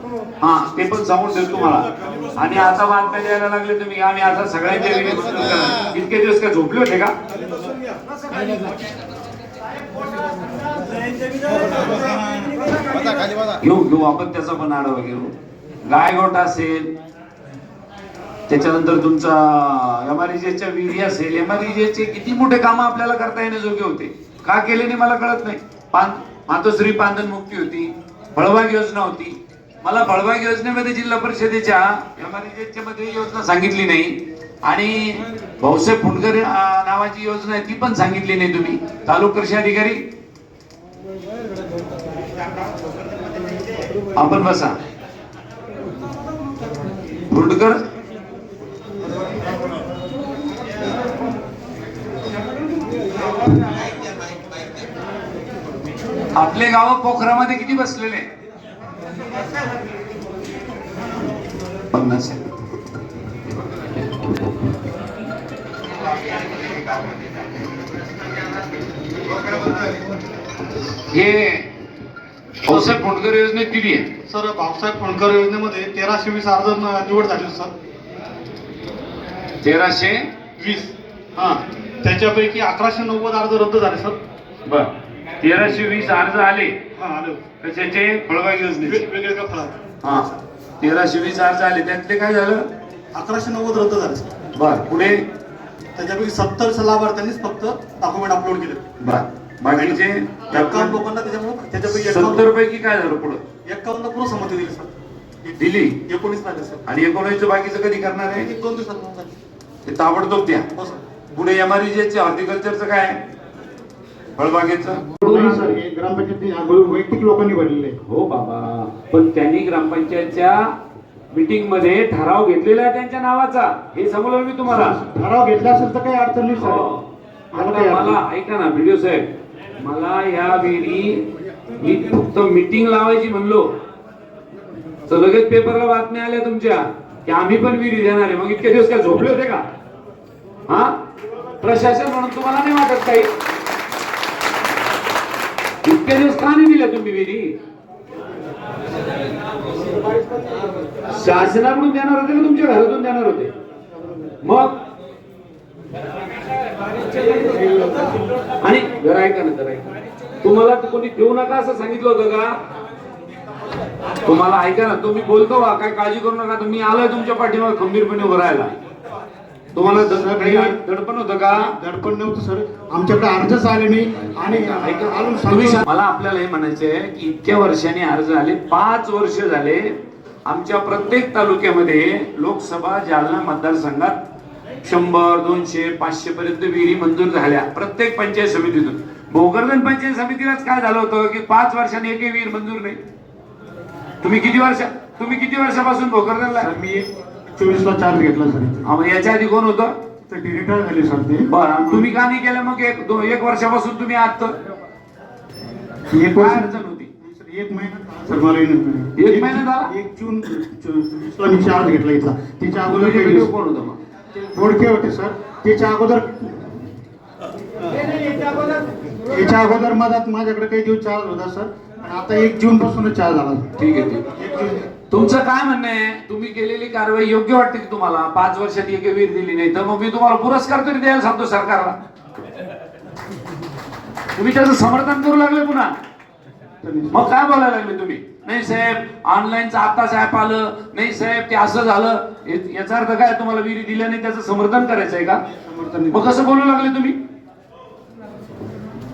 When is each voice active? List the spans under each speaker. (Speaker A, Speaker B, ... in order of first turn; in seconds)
Speaker A: 0.4-7.1, 13.6-15.3, 15.8-16.9, 18.5-40.0, 44.1-44.8, 47.3-47.8, 56.3-58.3, 61.9-62.4, 71.0-71.7, 72.6-74.1, 79.6-80.3, 84.7-86.8, 87.6-89.0, 90.0-90.3, 90.8-92.6, 94.5-95.2, 99.0-101.0, 101.9-103.4, 105.6-106.0, 106.8-108.5, 109.8-110.7, 111.3-113.2, 114.3-115.7, 118.0-120.7, 121.3-125.0, 126.6-129.3, 129.8-131.2, 131.8-133.7, 135.1-139.6, 140.7-141.0, 141.6-143.3, 145.8-147.5, 151.1-153.5, 154.4-154.7, 158.6-159.9, 160.4-162.5, 164.2-168.8, 169.7-171.7, 174.2-179.9, 180.4-184.1, 184.8-193.0, 194.2-196.7, 198.8-199.9, 201.5-204.5, 206.3-207.1, 209.2-209.9, 212.8-214.0, 223.8-224.2, 225.1-231.9, 234.3-235.9, 237.1-245.4, 246.1-247.2
Speaker B: 72.7-72.9, 74.3-77.7, 80.6-80.9, 82.0-84.2, 87.0-87.4, 88.8-89.7, 93.2-94.3, 96.0-98.9, 99.7-100.0, 100.5-102.5, 103.7-104.9, 106.1-106.8, 108.4-109.3, 110.7-111.0
Speaker C: 115.2-118.0, 124.7-126.8, 127.5-128.2, 169.8-170.8, 171.5-175.8, 196.6-198.8, 200.3-202.1, 206.1-213.5, 214.3-216.7, 219.2-223.7, 224.3-224.9, 236.8-237.3, 245.6-246.3